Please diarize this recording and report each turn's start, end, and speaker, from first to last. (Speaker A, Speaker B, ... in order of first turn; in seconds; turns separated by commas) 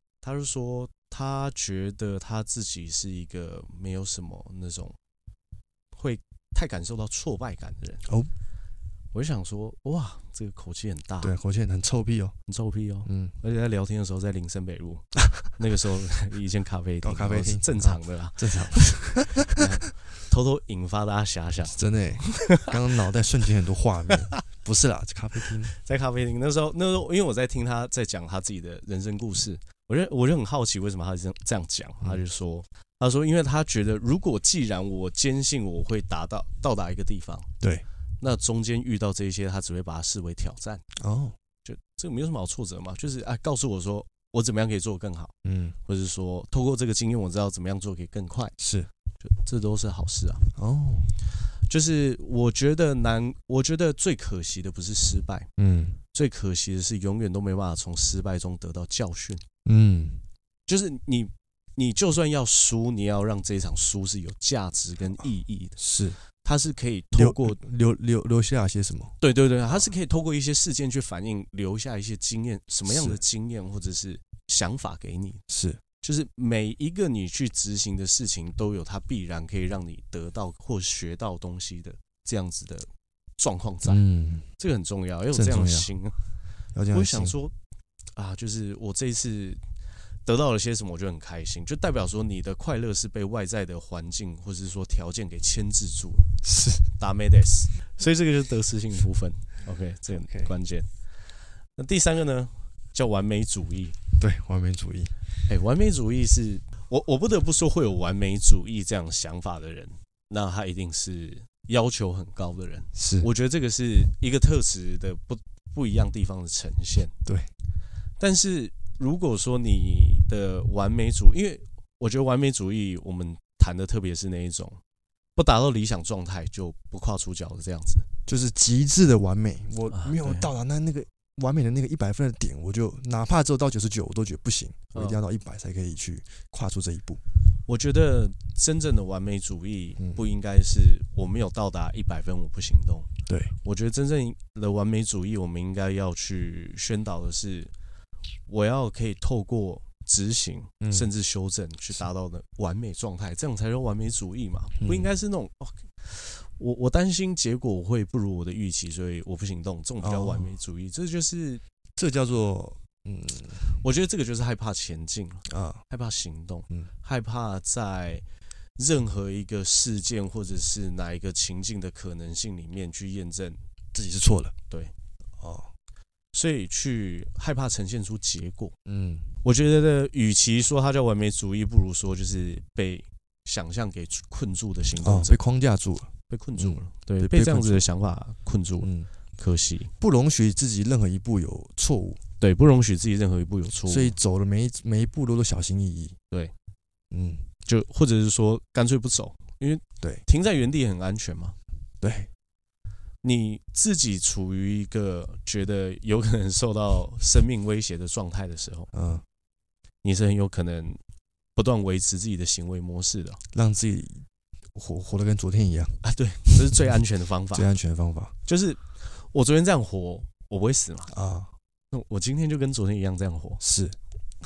Speaker A: 0.2-5.0, Speaker A: 5.9-8.0, Speaker B: 8.0-8.3, Speaker A: 9.1-11.3, Speaker B: 11.2-12.3, Speaker A: 12.5-22.7, Speaker B: 13.1-13.3, Speaker B: 17.0-19.8, Speaker B: 21.7-25.7, Speaker A: 25.7-37.5, Speaker A: 38.2-40.8, Speaker B: 41.0-41.4, Speaker A: 41.6-45.3, Speaker B: 45.4-45.8, Speaker A: 45.9-48.5, Speaker B: 48.6-48.9, Speaker A: 49.2-50.4, Speaker B: 50.5-51.1, Speaker A: 51.6-55.5, Speaker B: 55.6-56.0, Speaker A: 56.1-59.4, Speaker B: 59.6-60.2, Speaker A: 60.7-65.8, Speaker B: 65.8-66.2, Speaker A: 66.3-67.6, Speaker B: 67.1-69.1, Speaker A: 69.2-75.4, Speaker B: 72.9-73.2, Speaker B: 75.5-75.8, Speaker A: 76.0-84.0, Speaker B: 83.8-84.5, Speaker A: 84.6-86.2, Speaker B: 85.3-85.9, Speaker B: 86.7-87.3, Speaker A: 86.9-87.5, Speaker A: 88.2-89.6, Speaker A: 90.2-96.4, Speaker B: 96.4-96.9, Speaker A: 97.0-100.9, Speaker A: 101.8-104.0, Speaker B: 104.2-105.1, Speaker A: 105.5-117.1, Speaker B: 113.0-113.3, Speaker B: 117.2-117.5, Speaker A: 118.2-124.8, Speaker A: 125.3-128.1, Speaker B: 128.3-137.2, Speaker A: 129.9-130.5, Speaker A: 137.7-143.1, Speaker B: 143.3-143.5, Speaker A: 143.6-147.7, Speaker A: 148.5-161.6, Speaker B: 150.8-151.1, Speaker B: 154.8-155.1, Speaker B: 160.0-160.5, Speaker B: 162.0-163.6, Speaker A: 163.7-168.2, Speaker B: 165.5-165.8, Speaker A: 168.8-173.6, Speaker B: 173.9-174.5, Speaker B: 175.4-175.7, Speaker A: 176.3-178.7, Speaker B: 178.8-179.3, Speaker A: 179.4-185.4, Speaker B: 185.0-187.9, Speaker A: 186.3-189.9, Speaker B: 188.8-189.1, Speaker B: 190.0-192.2, Speaker A: 192.4-194.2, Speaker B: 193.9-196.2, Speaker B: 197.1-197.4, Speaker A: 197.7-201.6, Speaker B: 202.0-202.3, Speaker A: 203.2-208.9, Speaker B: 208.9-209.2, Speaker A: 210.0-211.0, Speaker A: 211.6-213.4, Speaker B: 213.5-216.7, Speaker A: 216.0-217.7, Speaker B: 217.5-218.3, Speaker A: 218.4-221.1, Speaker B: 221.1-221.5, Speaker A: 221.9-223.6, Speaker B: 223.6-223.9